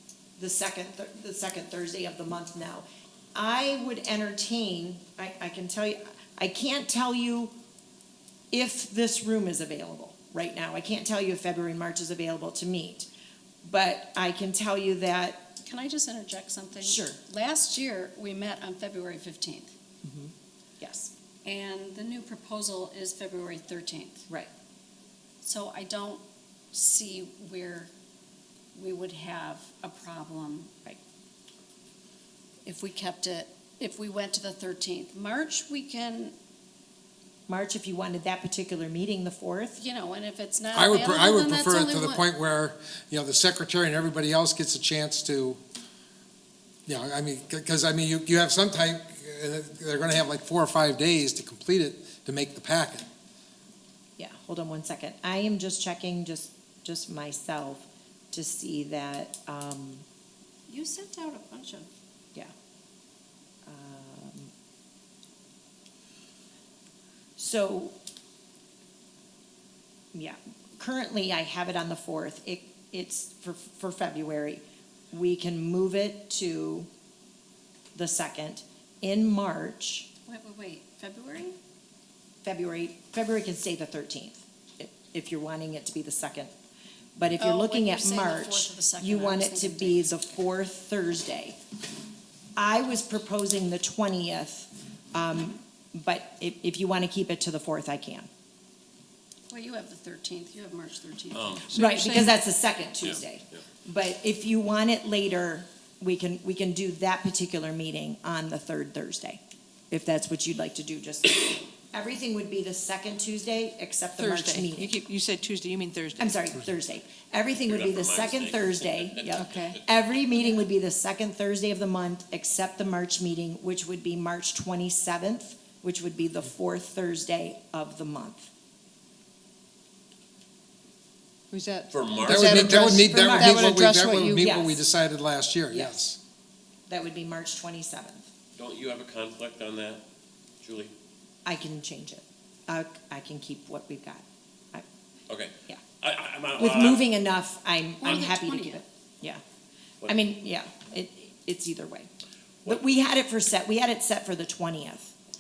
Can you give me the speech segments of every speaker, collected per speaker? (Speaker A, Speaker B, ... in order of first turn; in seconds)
Speaker A: 0.4-7.5, 8.5-13.1, 13.6-15.5, 16.8-17.2, 20.0-21.1, 37.5-39.8, 54.2-60.0, 63.7-64.5, 67.4-67.9, 70.1-76.9, 78.0-80.1, 82.4-86.5, 87.2-91.6, 92.6-98.3, 101.8-109.4, 109.9-114.9, 116.2-128.5, 133.1-133.6, 134.4-134.8, 135.7-136.1, 136.9-138.2, 141.5-144.8, 146.6-149.4, 150.1-152.1, 152.7-155.1
Speaker B: 15.6-19.7, 21.4-24.3, 25.4-27.9, 28.8-30.7, 32.6-36.4, 39.8-42.3, 60.7-61.9, 80.3-81.6, 87.4-90.2, 99.5-101.6, 148.0-148.8
Speaker C: 40.7-45.6, 46.9-53.1, 132.3-136.2
Speaker D: 101.3-101.7, 103.0-103.6, 117.5-119.8, 131.9-133.1, 138.6-140.0, 140.6-140.9, 145.3-147.1
Speaker E: 101.7-102.4, 114.2-116.6, 119.4-119.8, 131.5-134.5